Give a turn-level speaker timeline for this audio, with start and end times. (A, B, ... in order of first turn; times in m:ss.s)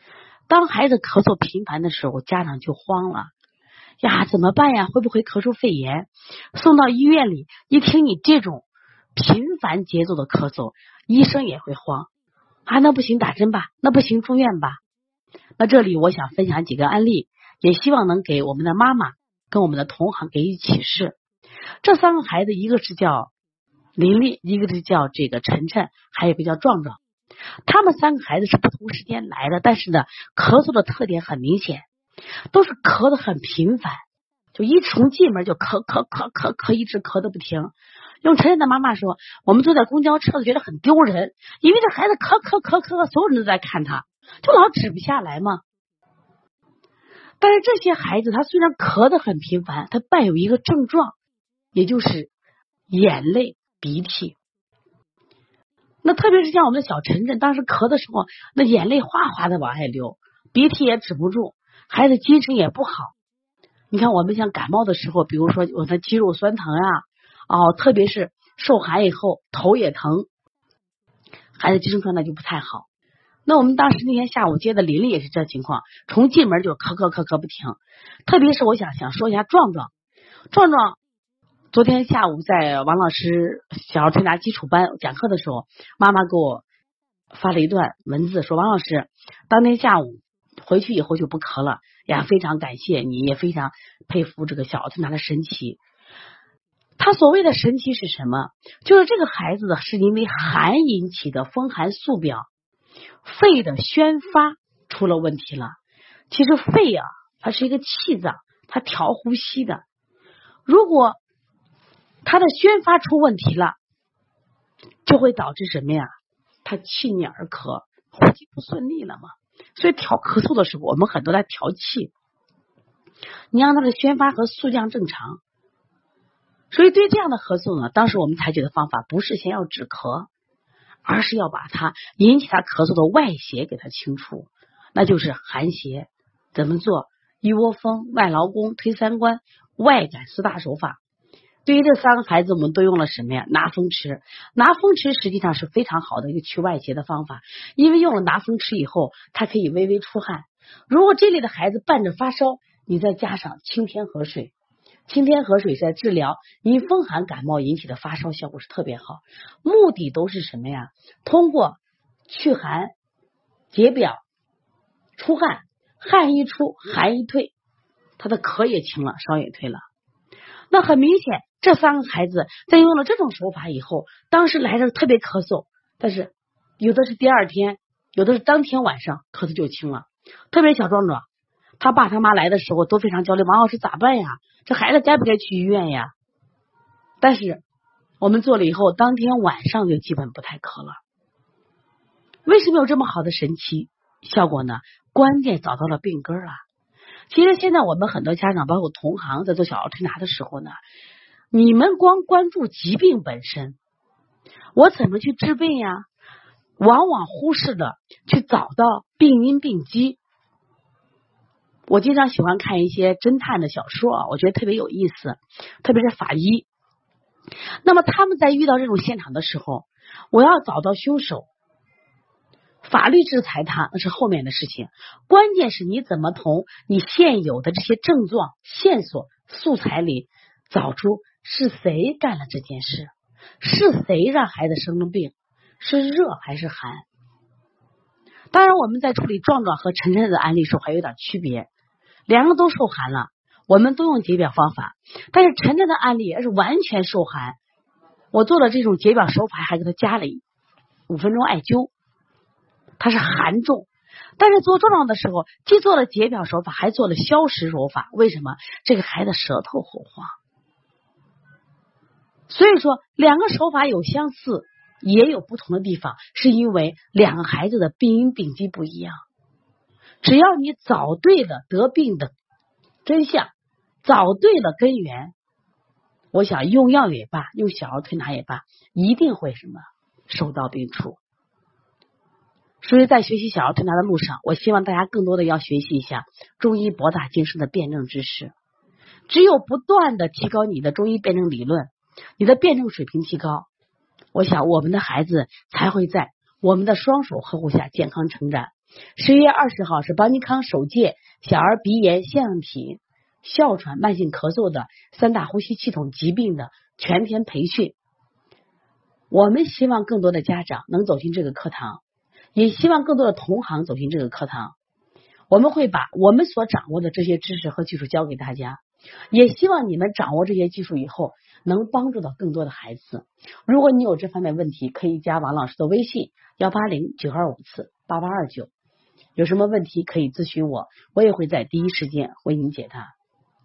0:00.5-0:03.3 A
0:04.0-0:12.1 A
0:12.7-0:14.8 A
0:15.6-0:21.2 A
0:21.8-0:23.3 A
0:24.0-0:27.0 A
0:27.7-0:31.9 A
0:32.5-0:34.0 A
0:34.6-0:45.6 A
0:47.4-0:51.2 A
0:51.7-0:52.3 A
0:52.9-0:54.4 A
0:56.0-1:03.1 A
1:03.9-1:10.3 A
1:11.6-1:12.9 A
1:13.5-1:19.9 A
1:20.5-1:21.0 A
1:21.7-1:26.6 A
1:27.3-1:35.8 A
1:37.0-1:42.5 A
1:43.2-1:45.8 A
1:46.3-1:49.8 A
1:50.7-1:51.2 A
1:52.2-1:53.8 A
1:55.0-1:56.1 A
1:56.6-2:02.1 A
2:03.5-2:05.4 A
2:06.7-2:10.3 A
2:11.0-2:21.0 A
2:21.6-2:34.5 A
2:35.1-2:42.9 A
2:43.7-2:44.2 A
2:45.2-2:47.5 A
2:48.2-2:49.8 A
2:50.7-3:01.3 A
3:01.8-3:06.1 A
3:07.2-3:07.6 A
3:08.2-3:11.0 A
3:12.5-3:16.6 A
3:17.3-3:20.8 A
3:21.5-3:23.8 A
3:24.8-3:26.1 A
3:26.8-3:30.2 A
3:31.9-3:36.7 A
3:37.8-3:41.5 A
3:42.8-3:57.1 A
3:58.5-4:01.7 A
4:02.3-4:07.6 A
4:08.3-4:10.4 A
4:11.1-4:11.9 A
4:13.0-4:13.9 A
4:14.4-4:20.3 A
4:22.5-4:29.2 A
4:30.2-4:32.3 A
4:33.0-4:33.5 A
4:34.0-4:35.3 A
4:36.3-4:41.2 A
4:42.8-4:48.5 A
4:49.3-4:53.7 A
4:54.3-5:08.0 A
5:09.3-5:12.0 A
5:12.6-5:14.7 A
5:15.5-5:28.7 A
5:29.4-5:33.1 A